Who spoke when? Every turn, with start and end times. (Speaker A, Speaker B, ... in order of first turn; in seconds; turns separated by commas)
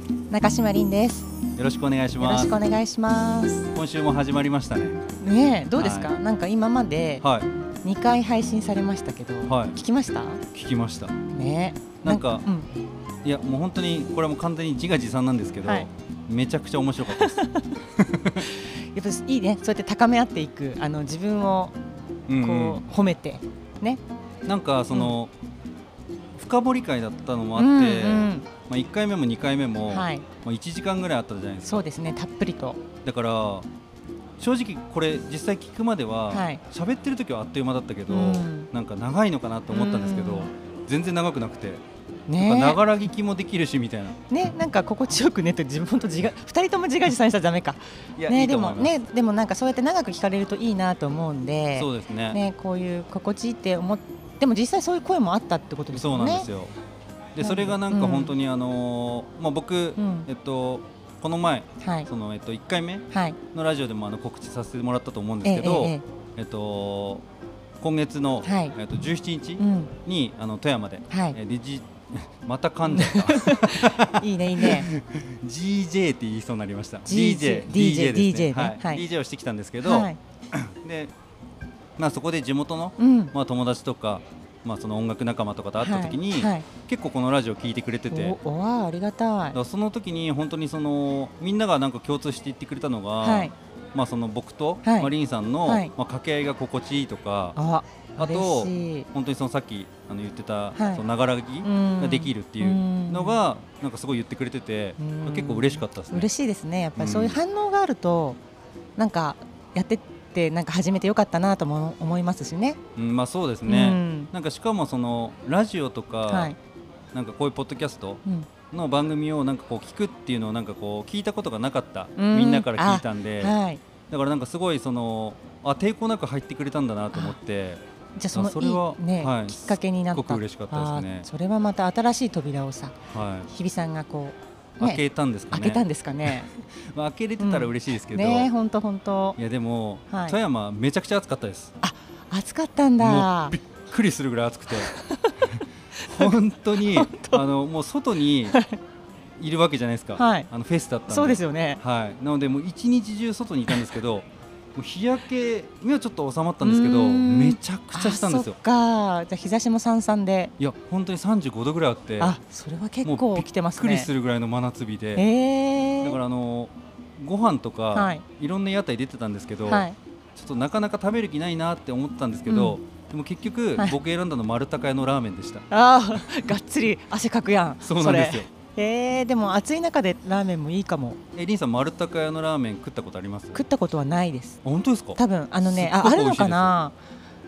Speaker A: 0.3-1.3, Speaker B: 1.6-2.5, Speaker A: 2.2-3.7, Speaker B: 3.7-5.0, Speaker A: 5.2-7.2, Speaker B: 5.8-6.1, Speaker B: 7.2-7.5, Speaker A: 7.8-10.4, Speaker B: 9.5-9.8, Speaker B: 10.5-11.1, Speaker A: 11.3-12.7, Speaker B: 12.0-12.4, Speaker B: 13.2-18.4, Speaker A: 17.2-17.7, Speaker A: 18.5-21.7, Speaker B: 22.3-22.8, Speaker A: 22.4-24.0, Speaker B: 24.4-25.3, Speaker B: 26.4-31.9, Speaker A: 27.6-28.4, Speaker A: 29.9-30.2, Speaker A: 31.6-32.8, Speaker B: 33.0-33.7, Speaker B: 34.4-41.8, Speaker A: 36.3-36.6, Speaker A: 38.1-38.7, Speaker A: 39.7-40.5, Speaker A: 42.3-42.8, Speaker B: 42.4-44.2, Speaker A: 44.3-56.5, Speaker B: 48.1-48.9, Speaker B: 51.8-52.4, Speaker B: 55.9-56.7, Speaker B: 57.3-67.2, Speaker A: 57.4-58.3, Speaker A: 60.0-60.3, Speaker A: 61.8-62.1, Speaker A: 63.1-63.4, Speaker A: 65.4-66.0, Speaker B: 67.8-81.1, Speaker A: 68.4-68.8, Speaker A: 69.6-69.9, Speaker A: 71.1-71.3, Speaker A: 72.9-74.9, Speaker A: 77.1-79.0, Speaker A: 79.8-80.2, Speaker B: 82.0-88.4, Speaker A: 83.0-83.3, Speaker A: 85.8-86.7, Speaker A: 88.1-89.6, Speaker B: 89.5-97.6, Speaker A: 93.2-93.5, Speaker A: 94.8-95.1, Speaker A: 95.6-95.9, Speaker A: 97.5-99.1, Speaker B: 98.2-106.3, Speaker A: 100.8-101.0, Speaker A: 101.6-103.4, Speaker A: 105.0-108.4, Speaker B: 107.0-107.4, Speaker A: 109.0-112.8, Speaker B: 113.0-116.5, Speaker A: 113.7-114.3, Speaker A: 116.3-116.6, Speaker B: 117.1-123.5, Speaker A: 122.2-123.8, Speaker B: 124.1-127.8, Speaker A: 128.2-132.9, Speaker B: 128.3-131.3, Speaker B: 133.1-133.5, Speaker A: 133.5-136.5, Speaker B: 134.8-138.5, Speaker A: 137.4-139.4, Speaker B: 139.4-141.7, Speaker A: 140.1-140.3, Speaker A: 141.8-143.6, Speaker B: 143.0-144.9, Speaker A: 144.9-145.3, Speaker B: 145.6-148.6, Speaker A: 146.0-147.4, Speaker A: 148.5-148.8, Speaker B: 149.4-158.6, Speaker A: 150.2-150.5, Speaker A: 151.1-151.8, Speaker A: 156.6-160.5, Speaker B: 160.6-162.4, Speaker A: 162.2-164.1, Speaker B: 163.0-165.2, Speaker A: 165.2-166.2, Speaker B: 166.0-175.6, Speaker A: 167.9-168.2, Speaker A: 169.7-170.0, Speaker A: 172.5-172.8, Speaker A: 175.7-181.2, Speaker B: 177.8-178.5, Speaker B: 181.3-183.6, Speaker A: 183.5-184.6, Speaker B: 184.6-186.7, Speaker A: 185.2-186.9